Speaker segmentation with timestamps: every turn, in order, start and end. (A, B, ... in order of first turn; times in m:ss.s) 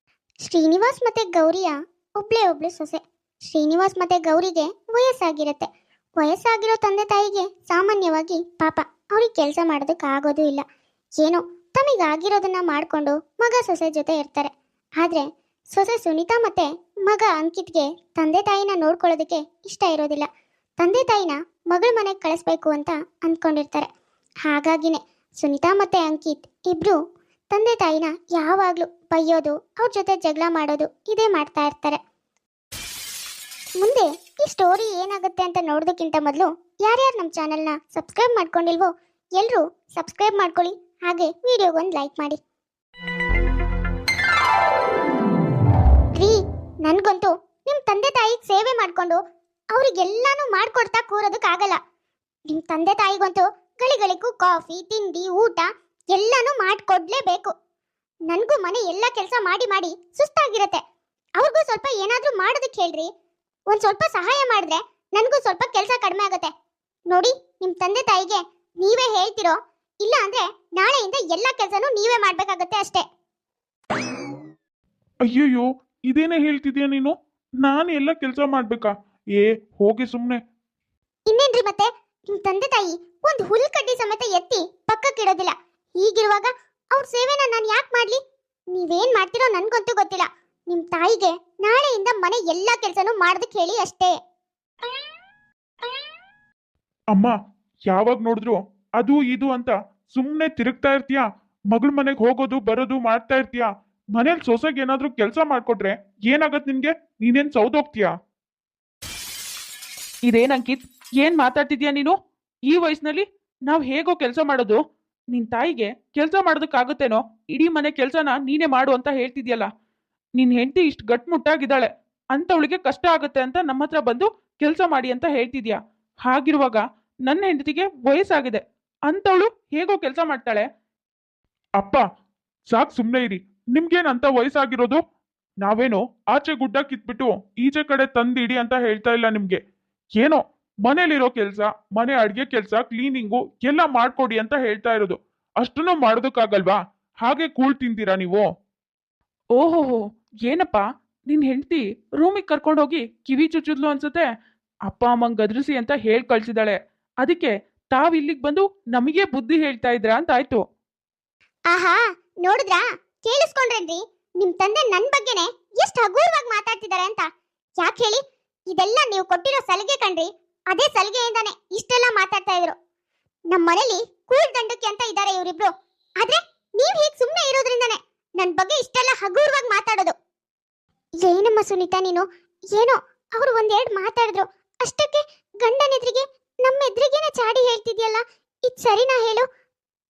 0:00.4-0:05.7 A
0:06.2-0:10.6 A
0:11.2-0:20.3 A
0:20.8-0:23.9 A
0:24.4-0:27.0 A
0:27.5-0:32.0 A
0:33.8-0:42.4 A
0:46.2-0:49.2 A
0:49.7-0:51.8 A
0:52.5-0:57.5 A
0:58.3-1:00.8 A
1:01.4-1:03.1 A
1:03.7-1:06.5 A
1:07.1-1:13.0 A
1:15.3-1:20.4 B
1:21.3-1:28.2 A
1:28.7-1:34.1 A
1:37.9-1:48.1 B
1:50.3-1:52.1 C
1:52.7-1:54.8 C
1:55.3-1:59.7 C
2:00.4-2:10.6 C
2:12.7-2:15.0 B
2:15.6-2:19.6 B
2:20.1-2:28.4 B
2:29.6-2:34.3 C
2:34.9-2:40.6 C
2:41.7-2:47.2 A
2:47.8-2:52.8 A
2:53.5-3:00.1 A
3:01.2-3:09.4 A